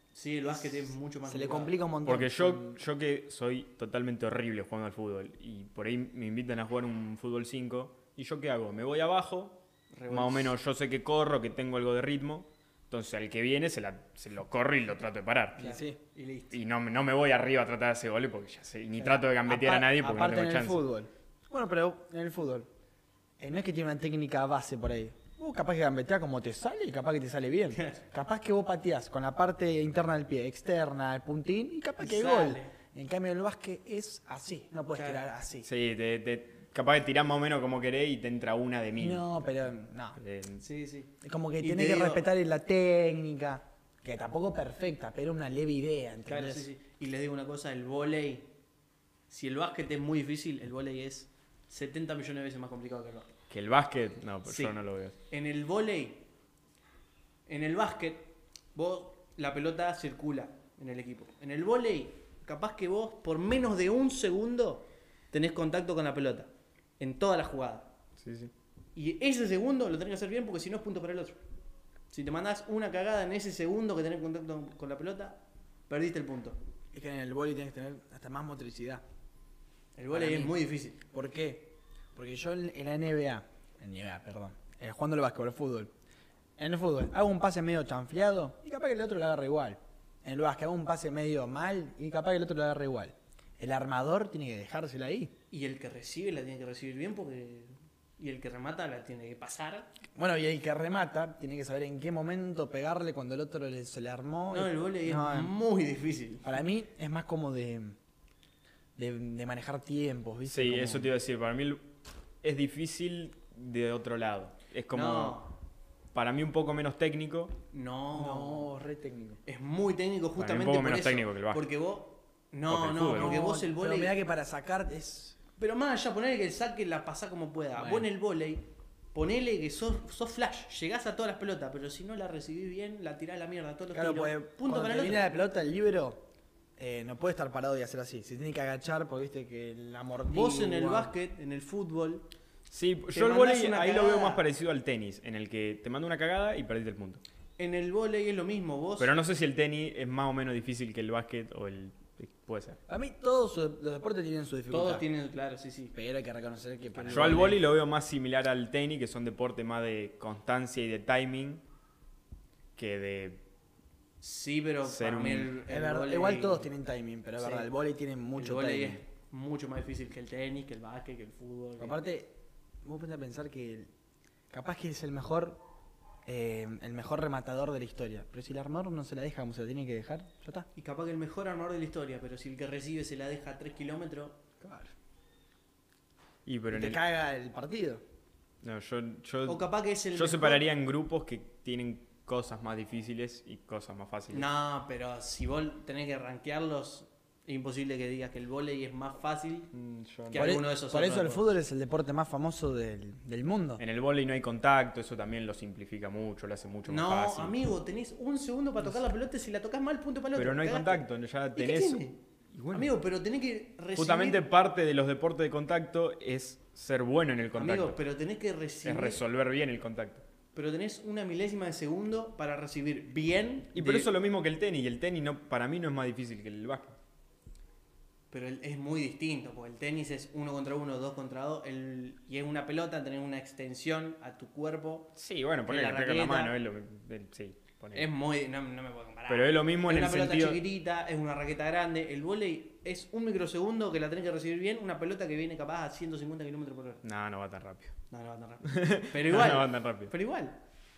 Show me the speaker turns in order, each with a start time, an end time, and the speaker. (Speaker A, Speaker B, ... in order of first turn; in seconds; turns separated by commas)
Speaker A: 0.1-1.8, Speaker B: 1.2-2.8, Speaker C: 2.0-15.7, Speaker A: 9.9-10.6, Speaker A: 15.6-16.6, Speaker B: 15.6-16.0, Speaker C: 16.5-20.8, Speaker B: 19.0-22.7, Speaker B: 23.4-35.7, Speaker A: 32.0-32.7, Speaker A: 34.9-35.2, Speaker C: 35.6-39.2, Speaker B: 39.0-40.2, Speaker C: 40.2-40.6, Speaker A: 40.6-42.2, Speaker B: 41.2-46.6, Speaker A: 46.2-48.5, Speaker A: 49.3-53.3, Speaker C: 53.5-55.1, Speaker A: 54.4-56.3, Speaker A: 57.5-67.9, Speaker C: 68.2-68.5, Speaker A: 69.0-71.4, Speaker A: 72.1-76.6, Speaker B: 76.9-79.0, Speaker A: 80.0-81.0, Speaker B: 80.1-85.9, Speaker B: 86.6-95.3, Speaker A: 95.5-99.9, Speaker B: 100.2-105.5, Speaker A: 104.5-106.5, Speaker B: 106.4-108.0, Speaker B: 109.0-111.1, Speaker C: 110.5-111.9, Speaker C: 112.4-115.4, Speaker A: 114.9-115.5, Speaker C: 116.1-117.6, Speaker A: 117.7-118.7, Speaker B: 118.1-119.4, Speaker A: 119.4-124.1, Speaker C: 120.4-121.6, Speaker C: 122.7-123.4, Speaker B: 123.1-125.4, Speaker A: 125.6-135.2, Speaker B: 127.8-128.1, Speaker B: 133.9-141.1, Speaker A: 140.3-142.3, Speaker C: 142.7-147.2, Speaker A: 143.1-144.4, Speaker A: 147.6-149.1, Speaker C: 149.0-152.8, Speaker B: 152.9-155.0, Speaker A: 154.7-155.9, Speaker B: 155.9-157.6, Speaker A: 156.9-157.6, Speaker C: 157.1-161.6, Speaker C: 162.8-163.4, Speaker A: 164.2-166.7, Speaker C: 164.8-165.6, Speaker B: 165.7-169.0, Speaker A: 167.4-167.7, Speaker A: 168.3-172.0, Speaker B: 171.8-173.9, Speaker B: 174.5-175.6, Speaker B: 176.2-180.7, Speaker A: 180.7-184.4, Speaker B: 184.6-184.9, Speaker C: 186.4-187.0, Speaker B: 186.7-188.0, Speaker C: 188.6-194.5, Speaker A: 189.4-190.6, Speaker A: 194.3-199.7, Speaker C: 199.7-200.5, Speaker A: 200.3-201.5, Speaker B: 200.3-203.8, Speaker C: 203.8-207.6, Speaker A: 206.8-212.2, Speaker C: 210.3-212.9, Speaker A: 212.7-214.4, Speaker C: 213.9-218.0, Speaker A: 217.6-219.2, Speaker C: 218.8-220.2, Speaker A: 220.5-224.1, Speaker C: 223.7-227.0, Speaker A: 228.3-235.1, Speaker C: 235.1-238.1, Speaker A: 235.7-236.6, Speaker A: 237.9-247.0, Speaker C: 239.3-240.6, Speaker C: 247.0-247.9, Speaker A: 248.1-250.6, Speaker C: 248.6-250.1